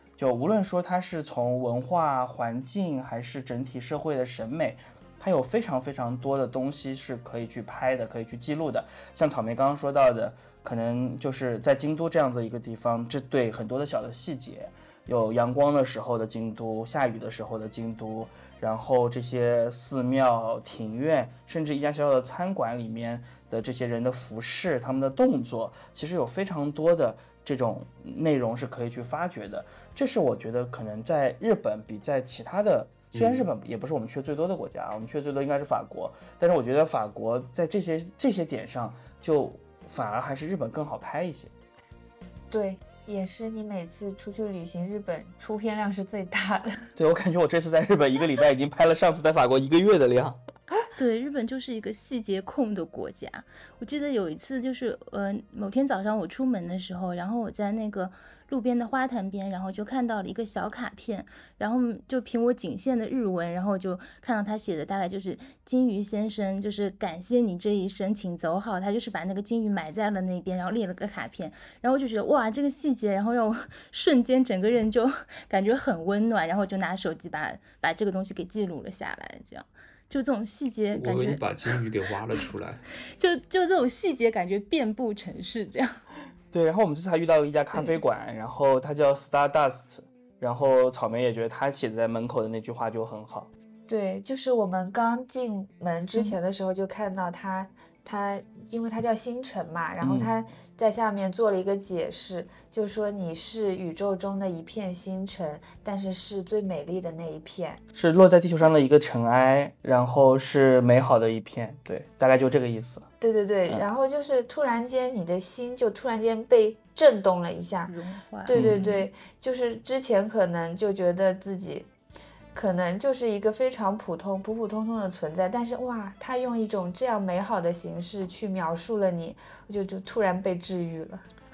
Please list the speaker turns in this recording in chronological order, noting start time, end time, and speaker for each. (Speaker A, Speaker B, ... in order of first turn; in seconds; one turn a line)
Speaker A: 0.2-41.5
Speaker B: 33.1-33.5
Speaker C: 42.5-46.9
Speaker A: 47.0-50.4
Speaker D: 51.0-81.4
Speaker B: 80.9-82.8
Speaker D: 83.2-86.0
Speaker A: 86.5-93.5
Speaker C: 93.9-107.8
Speaker A: 100.0-100.3
Speaker A: 107.9-113.1
Speaker C: 113.2-121.9
Speaker D: 117.8-118.9
Speaker A: 118.5-118.9
Speaker C: 122.5-131.2